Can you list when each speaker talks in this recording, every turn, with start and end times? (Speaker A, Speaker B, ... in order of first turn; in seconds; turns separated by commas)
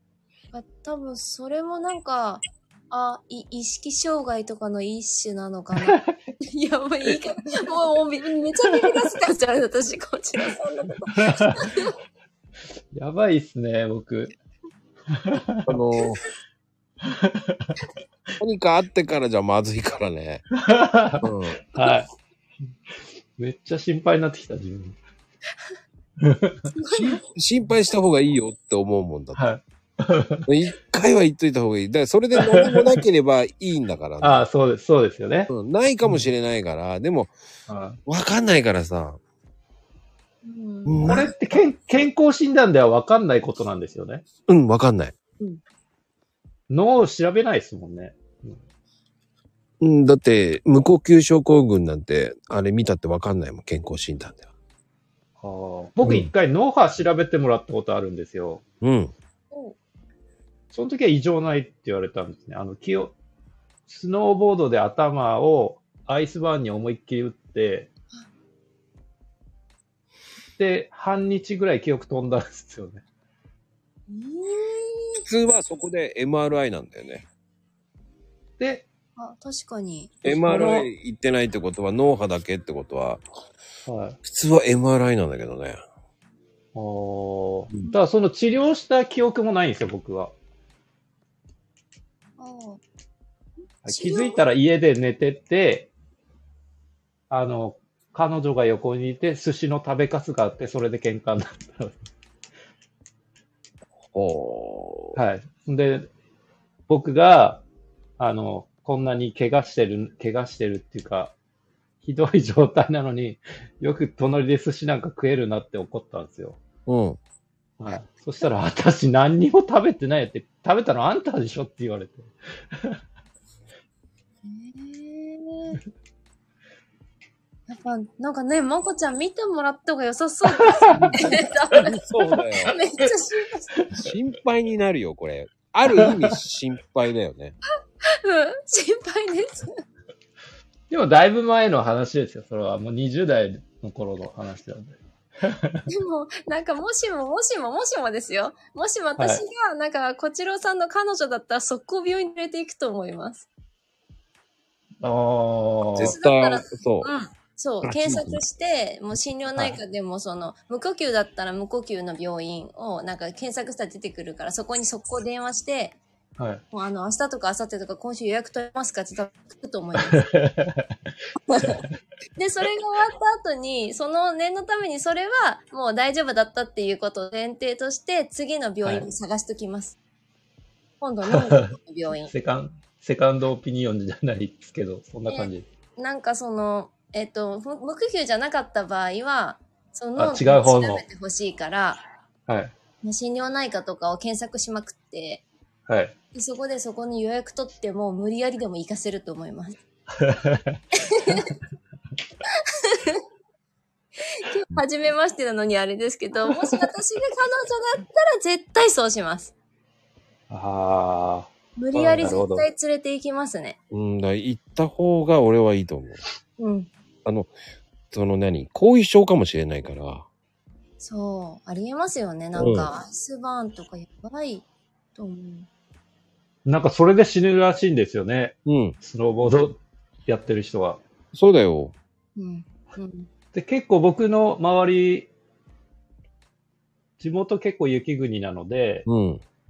Speaker A: 0.5-11.9, Speaker B: 5.9-6.1, Speaker B: 8.7-8.9, Speaker B: 11.1-11.6, Speaker B: 12.9-14.3, Speaker B: 15.1-15.7, Speaker C: 15.7-16.2, Speaker B: 17.0-17.8, Speaker C: 18.4-20.4, Speaker B: 20.5-22.1, Speaker C: 21.2-21.6, Speaker B: 23.4-25.0, Speaker B: 26.2-27.2, Speaker A: 26.8-27.2, Speaker C: 27.3-29.4, Speaker B: 29.4-30.4, Speaker C: 30.5-34.4, Speaker B: 32.4-33.0, Speaker B: 34.2-35.5, Speaker C: 35.5-37.3, Speaker B: 37.7-38.0, Speaker C: 38.0-39.2, Speaker A: 40.4-41.1, Speaker C: 40.9-41.3, Speaker B: 41.0-44.2, Speaker C: 44.5-45.1, Speaker B: 46.7-48.6, Speaker C: 49.8-54.5, Speaker B: 55.4-58.6, Speaker C: 56.0-56.3, Speaker C: 58.8-59.1, Speaker A: 59.5-59.8, Speaker B: 60.7-63.1, Speaker B: 63.9-67.9, Speaker B: 70.6-73.0, Speaker A: 74.1-75.2, Speaker C: 75.2-77.3, Speaker B: 78.6-78.9, Speaker A: 79.2-80.2, Speaker C: 80.2-83.2, Speaker B: 80.3-80.9, Speaker B: 83.9-84.2, Speaker C: 84.2-85.8, Speaker B: 86.8-90.3, Speaker A: 92.4-92.8, Speaker B: 93.8-95.9, Speaker A: 93.9-94.4, Speaker B: 97.3-102.0, Speaker C: 104.0-105.2, Speaker B: 105.2-106.1, Speaker B: 106.9-107.6, Speaker B: 108.2-111.3, Speaker B: 112.0-116.6, Speaker C: 116.9-117.2, Speaker B: 117.8-123.0, Speaker A: 124.4-125.8, Speaker A: 127.7-131.9, Speaker B: 130.6-131.2, Speaker C: 130.9-132.8, Speaker A: 132.7-133.7, Speaker C: 133.9-137.6, Speaker A: 138.1-139.7, Speaker B: 140.9-145.9, Speaker A: 145.9-153.5, Speaker B: 149.2-149.4, Speaker B: 155.0-156.2, Speaker C: 156.0-157.1, Speaker A: 156.0-166.0, Speaker C: 157.8-158.4, Speaker B: 166.4-166.6, Speaker A: 166.7-170.3, Speaker B: 170.1-170.9, Speaker A: 171.5-171.8, Speaker A: 172.4-180.0, Speaker A: 181.0-182.3, Speaker B: 181.3-185.7, Speaker A: 185.3-192.0, Speaker B: 190.2-191.0, Speaker B: 192.5-192.7, Speaker A: 193.0-195.4, Speaker B: 195.9-196.1, Speaker A: 196.3-199.8, Speaker B: 200.1-200.8, Speaker A: 201.0-201.6, Speaker A: 202.8-203.2, Speaker A: 204.3-209.5, Speaker B: 210.5-212.7, Speaker A: 211.8-213.8, Speaker C: 213.9-216.2, Speaker A: 216.6-216.9, Speaker C: 217.2-217.5, Speaker C: 218.1-220.3, Speaker A: 221.0-224.7, Speaker C: 222.6-222.9, Speaker A: 225.2-225.7, Speaker B: 226.7-231.0, Speaker C: 228.7-229.0, Speaker C: 231.3-231.9, Speaker A: 232.4-233.3, Speaker B: 233.5-235.3, Speaker B: 237.2-239.1, Speaker C: 239.1-239.4